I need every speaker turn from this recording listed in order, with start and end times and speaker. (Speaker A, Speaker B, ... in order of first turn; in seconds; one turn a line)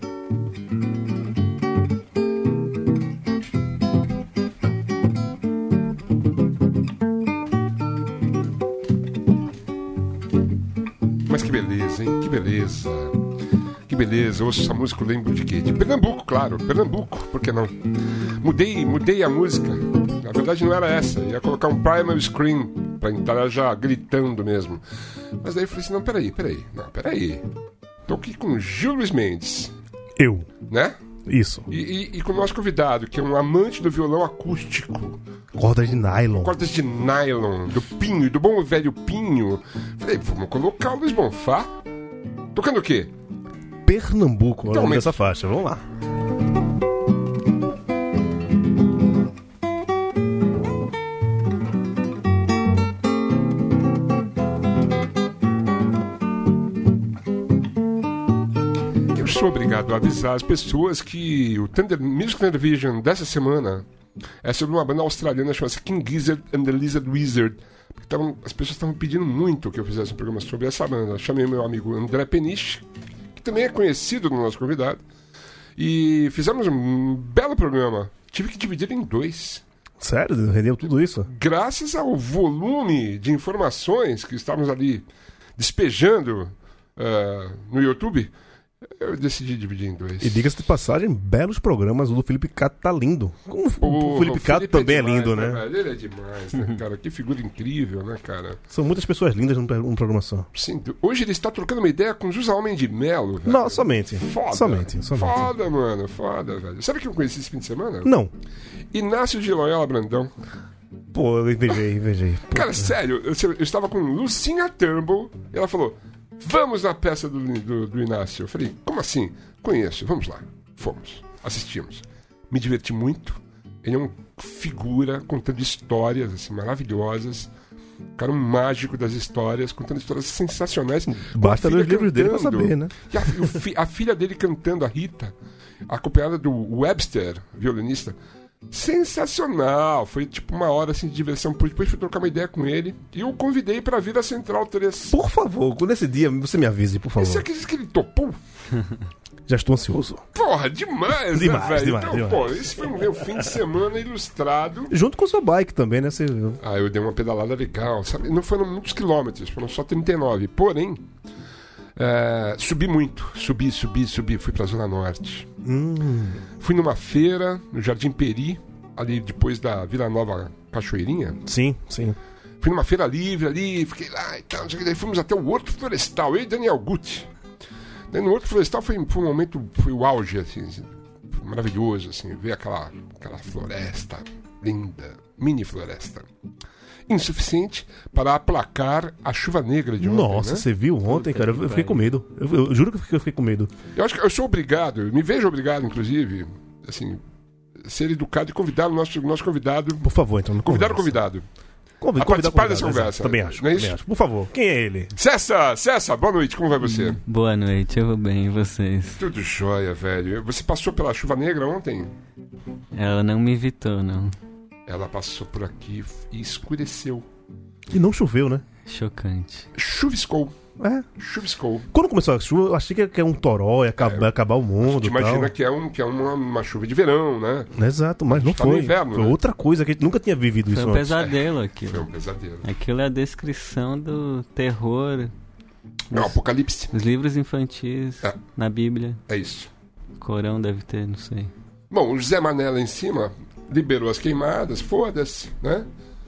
Speaker A: 11.2-13.2
Speaker A: 13.9-24.8
Speaker A: 25.4-27.4
Speaker A: 28.1-29.7
Speaker B: 30.2-30.5
Speaker A: 30.7-30.9
Speaker B: 31.3-31.7
Speaker A: 31.7-35.2
Speaker B: 35.5-36.5
Speaker A: 36.4-41.7
Speaker A: 42.5-43.1
Speaker B: 43.8-45.8
Speaker A: 44.7-45.2
Speaker A: 59.1-63.8
Speaker A: 64.4-75.0
Speaker A: 75.8-79.6
Speaker B: 80.0-81.3
Speaker A: 81.3-90.5
Speaker B: 90.2-95.6
Speaker A: 93.8-98.6
Speaker B: 98.7-100.5
Speaker A: 100.5-108.1
Speaker B: 103.4-105.5
Speaker B: 108.0-108.3
Speaker A: 108.9-110.3
Speaker B: 111.1-112.9
Speaker A: 112.5-127.5
Speaker A: 128.2-135.3
Speaker B: 131.3-133.5
Speaker A: 135.9-138.2
Speaker A: 138.7-145.2
Speaker B: 145.1-147.4
Speaker A: 147.2-148.4
Speaker B: 149.5-150.2
Speaker A: 150.3-154.9
Speaker B: 151.2-152.8
Speaker B: 154.9-156.6
Speaker A: 156.6-161.0
Speaker A: 161.9-165.5
Speaker B: 165.6-166.4
Speaker A: 166.6-171.4
Speaker B: 171.4-172.2
Speaker A: 172.6-177.3
Speaker A: 178.1-186.2
Speaker A: 187.1-190.7
Speaker B: 190.0-193.7
Speaker C: 191.1-192.0
Speaker A: 193.9-197.2
Speaker A: 197.8-201.4
Speaker B: 200.0-201.2
Speaker B: 202.0-205.1
Speaker A: 202.2-204.0
Speaker A: 205.2-207.2
Speaker C: 207.1-209.2
Speaker A: 209.2-212.1
Speaker C: 212.9-214.3
Speaker A: 214.9-217.3
Speaker B: 217.9-218.6
Speaker C: 218.8-219.7
Speaker A: 219.8-220.6
Speaker B: 220.8-221.1
Speaker A: 221.2-221.9
Speaker B: 221.9-225.5
Speaker A: 224.0-224.3
Speaker A: 224.8-227.7
Speaker B: 227.7-231.2
Speaker A: 228.3-229.4
Speaker C: 230.7-232.1
Speaker A: 231.2-232.7
Speaker C: 232.6-235.3
Speaker C: 236.1-236.3
Speaker A: 236.1-236.9
Speaker C: 236.9-239.2
Speaker A: 239.3-239.7
Speaker C: 240.2-241.5
Speaker A: 241.9-245.9